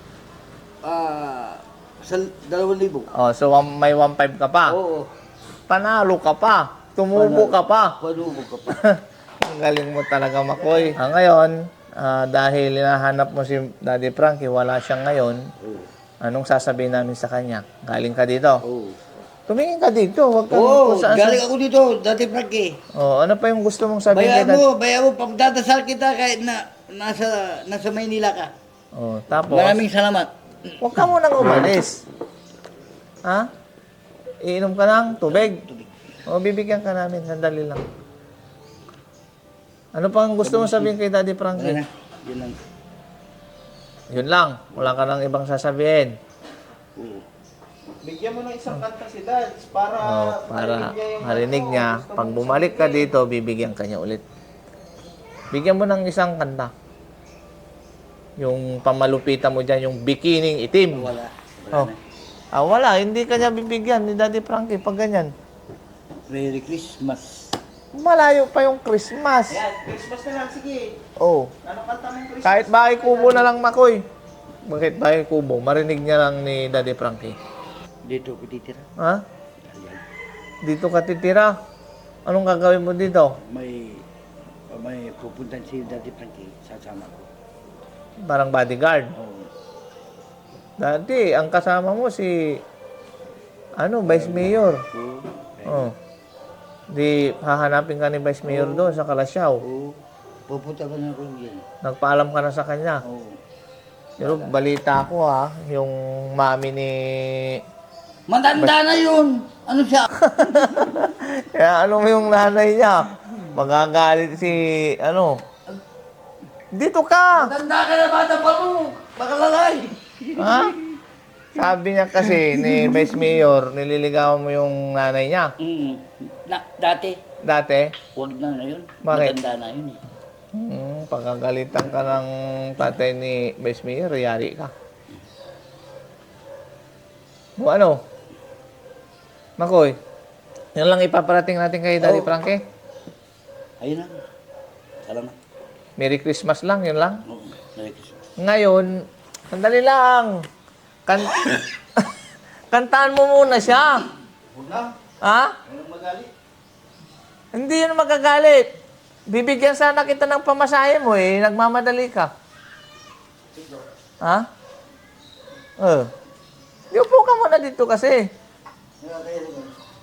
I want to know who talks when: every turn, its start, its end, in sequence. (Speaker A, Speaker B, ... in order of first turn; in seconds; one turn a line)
Speaker A: 0.8-3.1
Speaker B: 3.1-4.8
Speaker A: 4.7-5.1
Speaker B: 5.7-8.0
Speaker A: 7.1-8.8
Speaker B: 8.7-15.5
Speaker A: 10.6-11.0
Speaker A: 15.6-15.9
Speaker B: 16.2-18.6
Speaker A: 18.6-19.0
Speaker B: 19.5-21.4
Speaker A: 20.5-22.8
Speaker B: 22.9-24.6
Speaker A: 24.1-28.5
Speaker B: 28.9-29.8
Speaker A: 29.5-30.8
Speaker B: 30.8-32.0
Speaker B: 34.5-35.6
Speaker A: 35.2-35.9
Speaker B: 36.3-37.8
Speaker B: 40.0-41.8
Speaker A: 40.4-41.0
Speaker A: 41.5-42.6
Speaker B: 44.1-46.1
Speaker A: 47.0-47.2
Speaker C: 48.0-53.1
Speaker B: 50.0-54.2
Speaker B: 55.5-56.7
Speaker B: 58.4-61.1
Speaker A: 60.9-62.0
Speaker B: 62.5-65.3
Speaker A: 66.3-67.6
Speaker B: 67.9-69.6
Speaker C: 69.5-71.0
Speaker B: 71.2-71.5
Speaker C: 71.6-73.5
Speaker B: 72.4-74.0
Speaker B: 74.7-77.4
Speaker A: 78.1-78.9
Speaker B: 79.0-79.2
Speaker A: 79.6-80.0
Speaker B: 80.6-81.5
Speaker B: 82.3-83.4
Speaker A: 83.4-84.0
Speaker A: 84.7-87.3
Speaker B: 88.2-89.1
Speaker A: 89.2-89.5
Speaker B: 90.8-92.6
Speaker B: 93.8-94.8
Speaker A: 94.1-95.9
Speaker B: 95.7-95.9
Speaker B: 96.9-99.6
Speaker A: 98.4-99.0
Speaker A: 99.6-100.0
Speaker A: 100.5-101.6
Speaker B: 101.8-103.0
Speaker A: 103.0-103.4
Speaker B: 104.2-107.6
Speaker A: 104.2-104.5
Speaker A: 108.3-111.0
Speaker B: 110.2-115.4
Speaker B: 116.7-117.5
Speaker A: 117.3-121.0
Speaker B: 120.4-120.8
Speaker B: 121.5-125.5
Speaker A: 122.4-123.3
Speaker A: 125.6-127.2
Speaker B: 127.4-127.9
Speaker A: 128.2-130.0
Speaker B: 129.0-129.4
Speaker B: 130.5-134.7
Speaker B: 137.6-138.0
Speaker B: 139.6-139.9
Speaker B: 140.8-142.6
Speaker A: 142.0-142.3
Speaker A: 143.8-144.2
Speaker A: 145.1-145.3
Speaker B: 146.0-147.2
Speaker A: 147.3-148.2
Speaker B: 148.4-150.4
Speaker B: 151.1-152.1
Speaker B: 152.7-154.1
Speaker A: 154.5-154.9
Speaker B: 155.2-155.6
Speaker A: 155.7-156.3
Speaker B: 157.5-158.7
Speaker B: 159.3-162.3
Speaker B: 165.8-166.1
Speaker B: 166.9-168.3
Speaker A: 169.0-169.8